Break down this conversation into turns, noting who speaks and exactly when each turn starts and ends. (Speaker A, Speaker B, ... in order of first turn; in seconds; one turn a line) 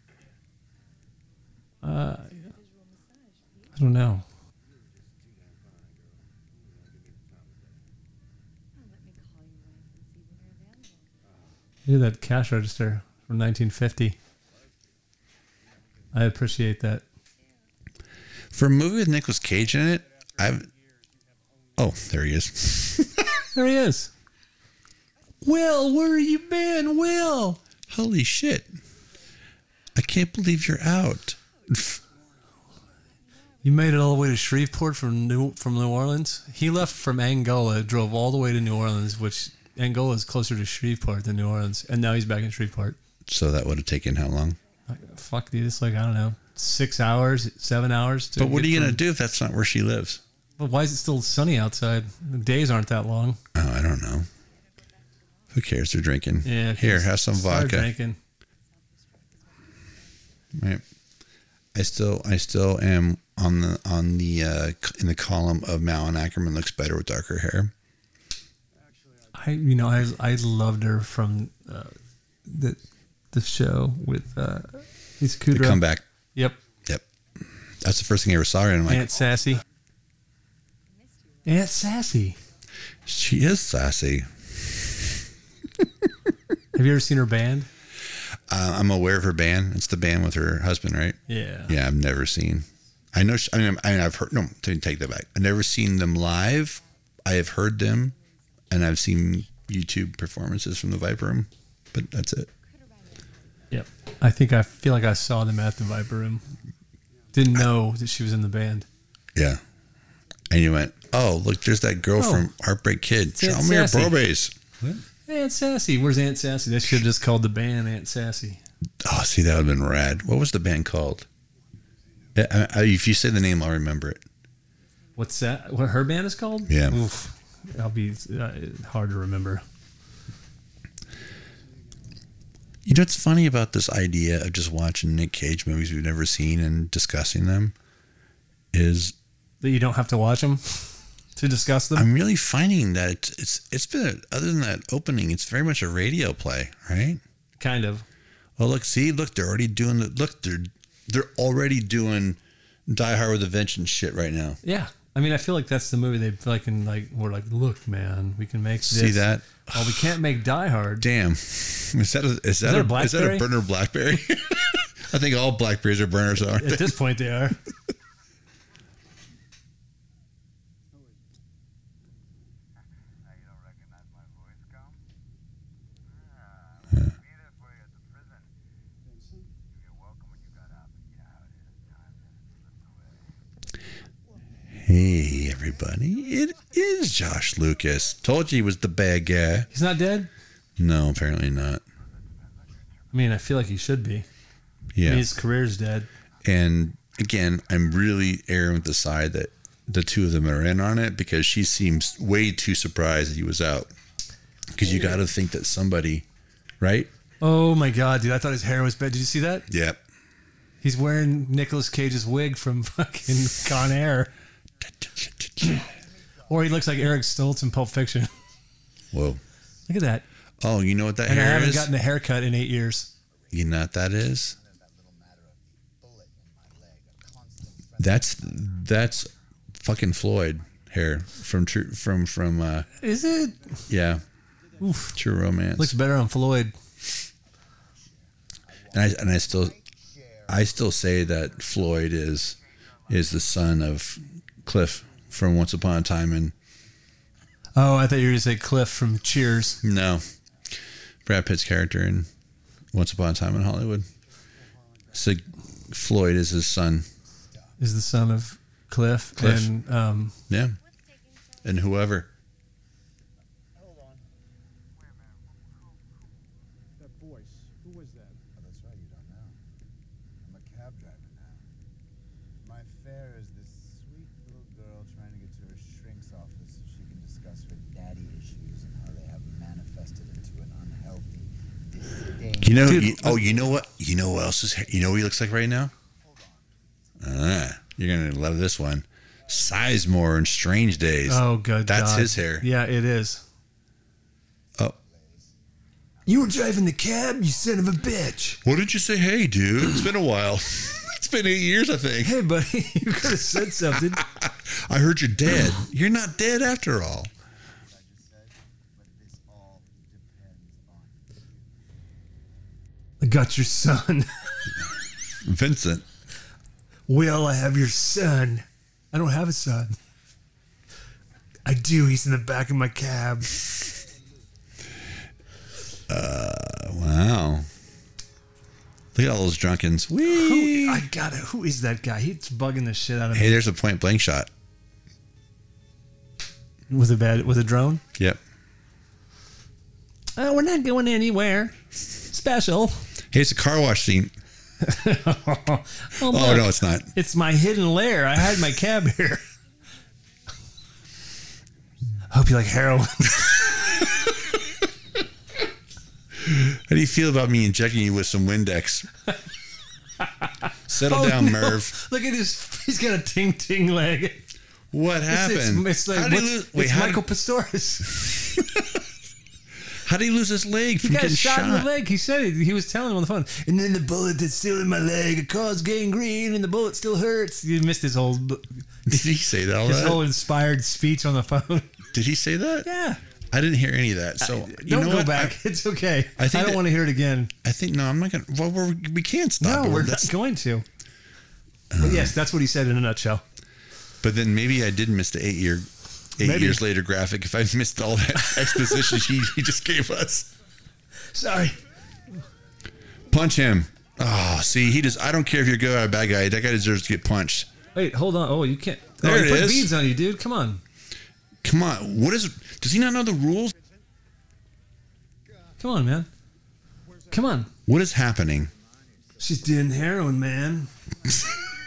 Speaker A: 1.8-2.5
Speaker B: 2.0-3.9
Speaker A: 3.8-4.2
Speaker C: 4.7-7.9
Speaker B: 8.7-11.2
Speaker C: 11.2-11.6
Speaker A: 11.9-14.2
Speaker C: 15.6-16.1
Speaker A: 16.1-17.1
Speaker D: 18.5-20.7
Speaker C: 19.7-21.9
Speaker D: 21.8-23.4
Speaker A: 23.5-24.1
Speaker A: 25.4-27.6
Speaker D: 27.9-28.7
Speaker D: 29.9-32.0
Speaker B: 33.3-34.0
Speaker A: 33.6-43.0
Speaker D: 43.3-44.6
Speaker A: 44.9-49.0
Speaker D: 48.4-50.2
Speaker A: 50.6-53.4
Speaker D: 53.5-54.3
Speaker B: 54.7-55.6
Speaker D: 55.5-57.9
Speaker A: 56.4-58.2
Speaker B: 58.7-60.0
Speaker D: 60.5-60.8
Speaker D: 61.8-67.7
Speaker C: 68.7-70.1
Speaker A: 69.3-71.9
Speaker A: 72.5-72.8
Speaker A: 73.3-75.8
Speaker D: 75.5-76.0
Speaker D: 77.8-79.1
Speaker A: 78.9-79.6
Speaker C: 79.1-79.4
Speaker B: 80.9-82.0
Speaker A: 81.4-82.4
Speaker D: 83.1-85.1
Speaker A: 86.7-87.7
Speaker D: 88.5-98.2
Speaker A: 91.3-91.8
Speaker D: 98.7-102.5
Speaker B: 102.6-103.4
Speaker A: 103.7-106.4
Speaker C: 107.1-107.4
Speaker A: 107.3-108.9
Speaker D: 109.3-109.6
Speaker D: 110.5-115.0
Speaker A: 112.2-112.5
Speaker A: 113.3-114.2
Speaker A: 115.3-118.6
Speaker D: 119.0-121.2
Speaker C: 121.7-122.3
Speaker D: 122.3-124.2
Speaker A: 125.2-129.6
Speaker D: 126.7-127.0
Speaker C: 131.6-132.2
Speaker D: 132.8-137.8
Speaker D: 138.7-139.2
Speaker A: 139.6-142.1
Speaker D: 141.9-147.2
Speaker A: 147.6-148.1
Speaker D: 148.6-154.6
Speaker A: 154.6-161.1
Speaker D: 158.9-160.2
Speaker D: 161.0-167.0
Speaker A: 162.6-163.5
Speaker A: 166.5-167.6
Speaker C: 170.9-171.3
Speaker E: 173.2-175.0
Speaker E: 176.2-178.4
Speaker C: 179.0-179.6
Speaker E: 179.8-183.1
Speaker D: 184.7-189.7
Speaker A: 189.7-190.3
Speaker D: 190.8-191.8
Speaker A: 193.1-194.2
Speaker D: 194.9-195.3
Speaker A: 195.0-196.1
Speaker D: 196.4-203.9
Speaker D: 204.7-206.2
Speaker D: 206.8-207.1
Speaker A: 207.4-209.7
Speaker D: 209.7-210.0
Speaker A: 210.8-214.3
Speaker D: 214.8-215.8
Speaker E: 215.9-216.5
Speaker A: 216.5-218.3
Speaker D: 219.1-219.4
Speaker A: 219.9-220.2
Speaker D: 220.6-221.9
Speaker A: 221.2-223.1
Speaker D: 223.5-224.6
Speaker E: 224.4-228.8
Speaker D: 228.0-232.9
Speaker A: 233.0-233.8
Speaker C: 233.1-234.0
Speaker D: 233.9-234.2
Speaker C: 234.7-235.1
Speaker A: 234.8-235.2
Speaker D: 235.1-235.9
Speaker A: 235.8-236.8
Speaker E: 238.7-241.1
Speaker D: 238.9-239.8
Speaker D: 240.5-246.5
Speaker A: 247.8-249.8
Speaker D: 249.8-250.2
Speaker D: 251.2-252.3
Speaker D: 252.9-254.1
Speaker C: 254.5-255.2
Speaker D: 255.1-257.1
Speaker A: 257.8-260.4
Speaker D: 259.4-259.7
Speaker D: 260.5-260.8
Speaker B: 260.7-261.9
Speaker D: 261.6-262.3
Speaker E: 263.7-264.3
Speaker C: 267.0-268.4
Speaker E: 268.5-269.6
Speaker E: 270.4-271.6
Speaker E: 272.6-283.5
Speaker D: 282.6-285.9
Speaker A: 282.8-283.4
Speaker E: 285.9-287.1
Speaker D: 287.2-292.6
Speaker A: 291.2-293.4
Speaker E: 294.9-295.6
Speaker E: 296.2-296.7
Speaker A: 296.3-298.6
Speaker D: 298.6-302.4
Speaker A: 302.2-304.2
Speaker D: 303.9-307.3
Speaker E: 307.8-311.6
Speaker A: 313.2-314.5
Speaker D: 315.4-316.0
Speaker A: 317.1-319.9
Speaker A: 321.6-323.6
Speaker D: 326.1-327.7
Speaker D: 329.1-331.0
Speaker A: 330.3-333.6
Speaker D: 333.3-334.5
Speaker A: 336.9-338.0
Speaker A: 340.4-341.8
Speaker A: 342.3-343.1
Speaker D: 343.3-344.3
Speaker A: 344.8-349.4
Speaker D: 346.2-347.1
Speaker A: 352.3-353.8
Speaker D: 353.7-354.3
Speaker D: 356.4-359.1
Speaker A: 360.2-364.5
Speaker D: 360.9-362.0
Speaker D: 364.9-367.2
Speaker A: 365.3-368.3
Speaker D: 368.2-368.8
Speaker D: 369.9-371.9
Speaker A: 371.0-382.0
Speaker D: 379.1-380.2
Speaker D: 382.1-382.9
Speaker A: 382.8-383.2
Speaker D: 383.5-385.6
Speaker A: 384.4-387.5
Speaker D: 386.4-386.8
Speaker D: 387.6-390.3
Speaker A: 389.6-390.9
Speaker D: 391.9-392.4
Speaker A: 392.0-393.4
Speaker D: 394.2-400.5
Speaker A: 396.4-396.8
Speaker A: 398.5-399.2
Speaker A: 401.2-401.8
Speaker D: 403.3-407.7
Speaker A: 407.9-410.8
Speaker D: 409.2-409.9
Speaker D: 411.6-413.7
Speaker A: 415.8-416.3
Speaker C: 417.0-417.6
Speaker A: 417.3-417.7
Speaker D: 417.9-418.7
Speaker E: 418.6-419.9
Speaker A: 419.4-420.9